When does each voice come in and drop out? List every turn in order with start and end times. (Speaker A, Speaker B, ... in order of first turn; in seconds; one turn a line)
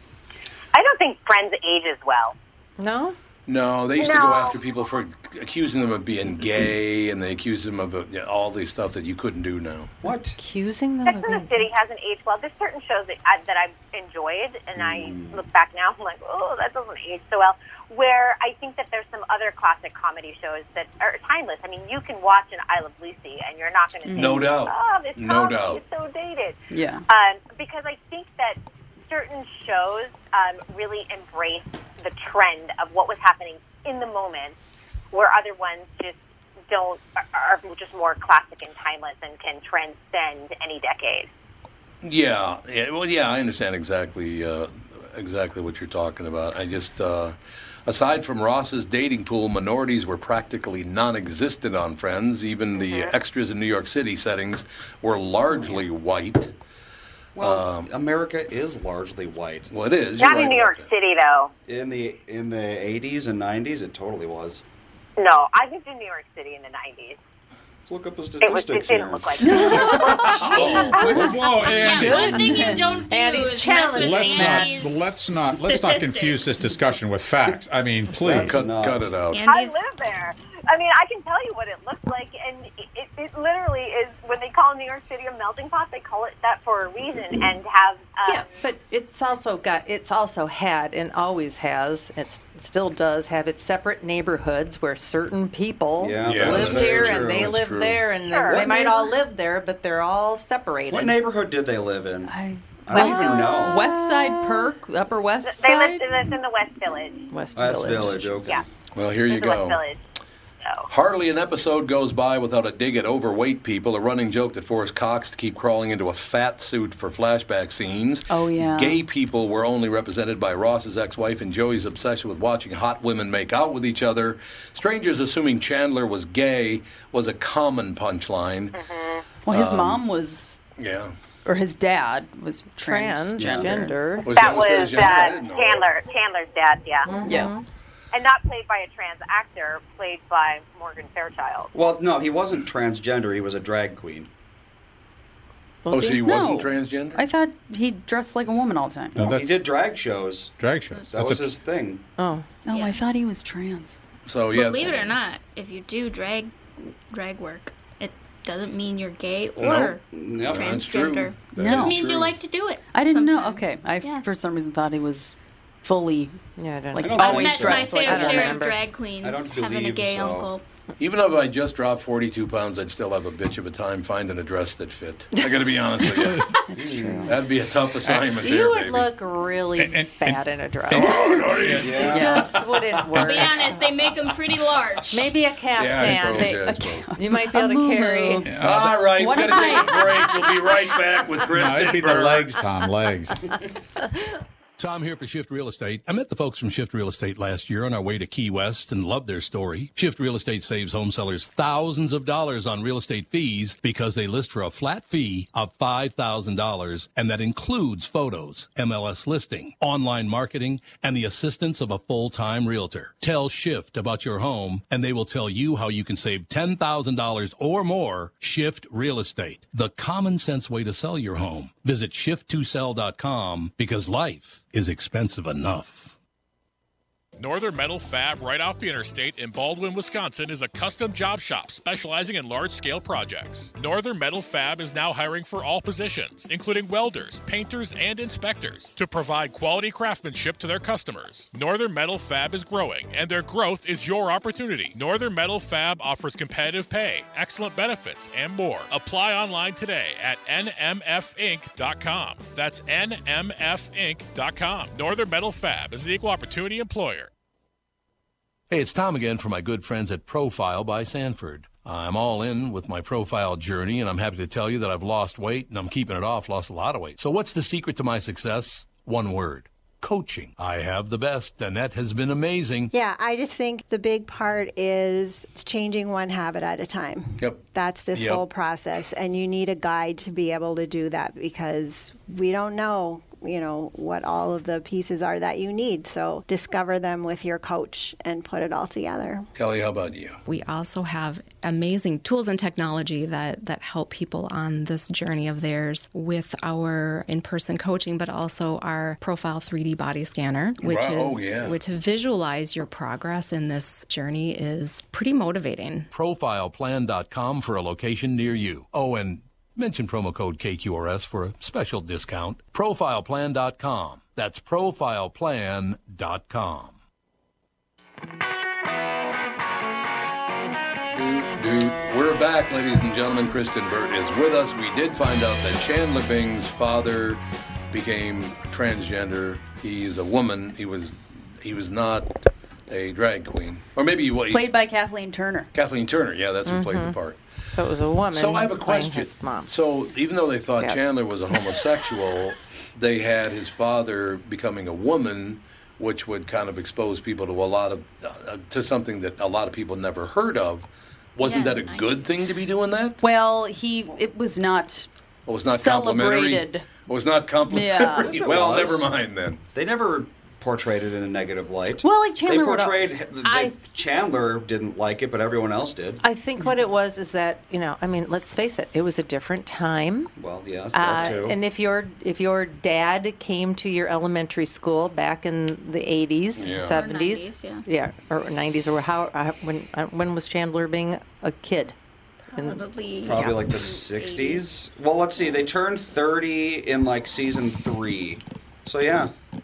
Speaker A: 0.7-2.3
Speaker B: 2.8-3.1
Speaker C: 3.5-9.9
Speaker A: 4.0-4.5
Speaker D: 10.0-10.4
Speaker B: 10.4-11.7
Speaker A: 11.1-28.6
Speaker D: 14.8-15.4
Speaker E: 24.0-24.5
Speaker C: 24.1-25.8
Speaker E: 26.7-27.0
Speaker A: 29.1-34.5
Speaker A: 35.1-41.3
Speaker C: 42.0-56.5
Speaker A: 52.8-53.1
Speaker D: 57.3-59.7
Speaker C: 57.4-57.9
Speaker C: 59.7-60.9
Speaker A: 60.2-61.5
Speaker D: 61.7-64.6
Speaker A: 65.2-67.2
Speaker D: 67.8-70.3
Speaker A: 68.4-71.1
Speaker E: 69.4-73.0
Speaker C: 70.2-71.0
Speaker F: 70.9-72.8
Speaker G: 71.1-76.7
Speaker B: 72.1-74.9
Speaker F: 73.9-78.6
Speaker D: 78.1-79.1
Speaker C: 78.3-79.4
Speaker G: 79.3-79.9
Speaker A: 79.4-88.6
Speaker B: 88.2-101.2
Speaker D: 96.0-97.6
Speaker C: 96.2-98.0
Speaker A: 98.3-98.7
Speaker D: 98.5-99.1
Speaker D: 100.9-103.9
Speaker E: 102.3-106.2
Speaker B: 102.9-104.7
Speaker A: 105.5-107.2
Speaker B: 107.3-108.3
Speaker D: 107.5-108.6
Speaker E: 107.6-108.3
Speaker C: 108.9-109.8
Speaker A: 109.3-110.0
Speaker C: 110.9-128.8
Speaker E: 118.3-119.0
Speaker A: 128.7-129.2
Speaker E: 129.4-130.6
Speaker C: 129.5-130.0
Speaker C: 130.8-131.1
Speaker E: 131.4-134.0
Speaker B: 132.8-134.3
Speaker D: 133.3-133.8
Speaker C: 134.2-135.8
Speaker A: 134.3-137.1
Speaker B: 137.1-137.6
Speaker E: 137.2-137.5
Speaker A: 138.1-141.7
Speaker D: 141.7-144.3
Speaker B: 145.8-146.2
Speaker C: 145.9-147.2
Speaker E: 146.1-149.2
Speaker D: 149.2-150.5
Speaker F: 149.2-149.6
Speaker F: 150.6-151.5
Speaker D: 151.1-152.0
Speaker B: 152.2-152.4
Speaker E: 152.6-154.0
Speaker G: 152.7-153.1
Speaker C: 154.2-155.0
Speaker G: 154.5-164.3
Speaker C: 159.6-162.3
Speaker D: 160.1-160.8
Speaker E: 161.5-162.0
Speaker E: 162.9-166.4
Speaker B: 166.6-168.8
Speaker E: 166.9-168.6
Speaker D: 167.0-168.4
Speaker G: 167.2-170.6
Speaker D: 169.2-170.5
Speaker C: 171.0-176.5
Speaker E: 176.7-177.3
Speaker D: 176.7-177.3
Speaker C: 177.2-179.1
Speaker B: 178.2-183.9
Speaker F: 179.7-182.1
Speaker C: 180.9-183.5
Speaker D: 181.8-182.4
Speaker E: 182.0-182.5
Speaker G: 183.2-185.2
Speaker B: 185.1-188.5
Speaker C: 185.8-187.1
Speaker E: 186.0-190.7
Speaker F: 188.4-189.0
Speaker C: 188.6-192.6
Speaker F: 191.5-193.5
Speaker C: 194.8-226.1
Speaker H: 227.4-257.3
Speaker C: 258.7-272.9
Speaker I: 272.9-289.5
Speaker C: 278.1-278.4
Speaker C: 289.5-290.4
Speaker J: 290.4-306.1
Speaker C: 300.8-301.8
Speaker C: 306.1-317.0
Speaker C: 321.1-332.4
Speaker C: 332.9-334.6
Speaker E: 334.5-335.7
Speaker C: 335.7-337.4
Speaker B: 336.6-339.7
Speaker C: 338.3-353.2
Speaker G: 351.4-352.3
Speaker E: 353.2-355.1
Speaker C: 355.4-359.6
Speaker E: 355.6-356.9
Speaker E: 357.7-358.3
Speaker D: 358.2-359.1
Speaker D: 359.7-366.2
Speaker E: 362.0-363.1
Speaker B: 363.4-363.7
Speaker B: 366.2-370.3
Speaker D: 370.4-371.5
Speaker B: 370.9-381.9
Speaker C: 371.1-371.5
Speaker C: 376.6-377.0
Speaker G: 376.9-377.9
Speaker B: 382.5-383.6
Speaker G: 382.5-384.6
Speaker D: 383.2-389.3